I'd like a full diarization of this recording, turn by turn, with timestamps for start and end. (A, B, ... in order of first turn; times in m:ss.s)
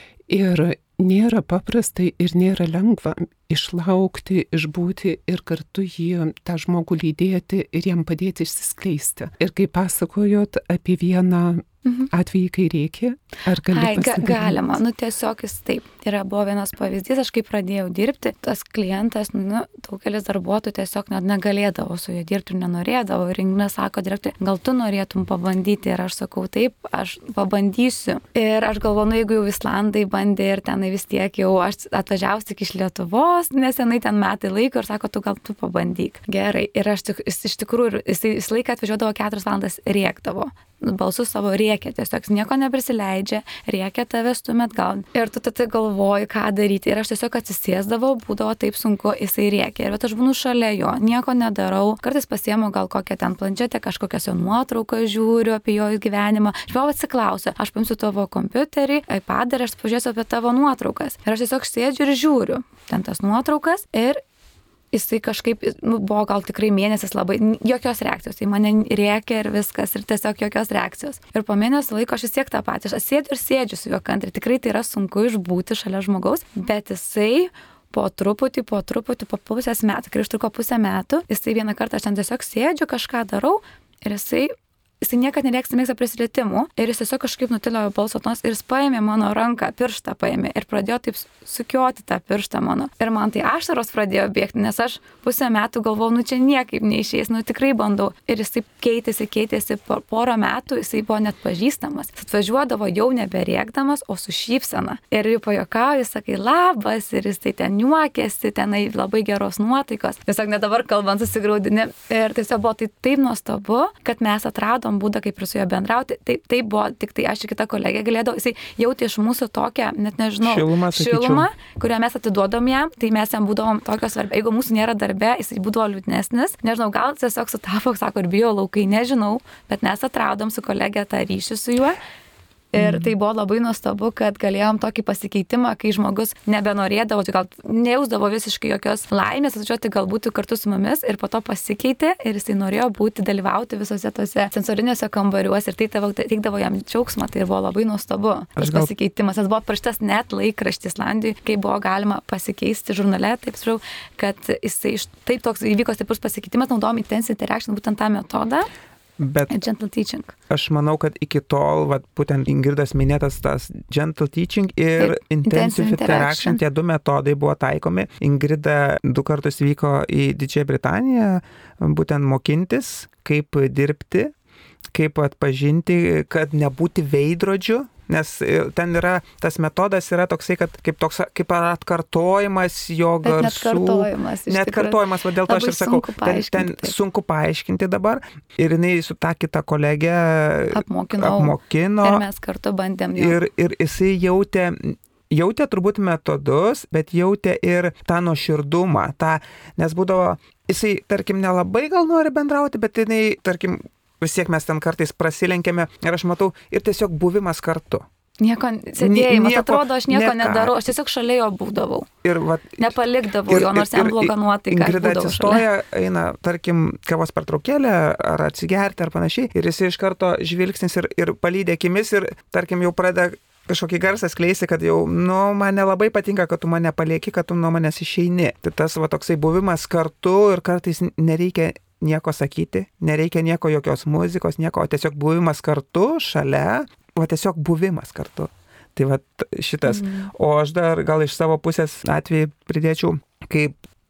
0:00.3-0:14.6 A
0:11.8-0:12.1 B
0:13.7-1:04.2 B
1:04.9-2:12.0 B
2:00.4-2:01.5 C
2:12.7-2:38.7 B
2:28.6-2:28.9 C
2:39.2-2:39.6 C
2:39.5-2:40.3 B
2:40.5-2:54.3 C
2:45.0-2:46.6 B
2:54.9-3:12.2 C
3:03.2-3:06.9 B
3:10.7-3:13.4 B
3:13.2-3:28.0 C
3:28.4-3:32.1 B
3:29.0-3:30.7 C
3:32.2-4:03.8 C
3:32.8-3:35.6 B
3:59.9-4:00.3 B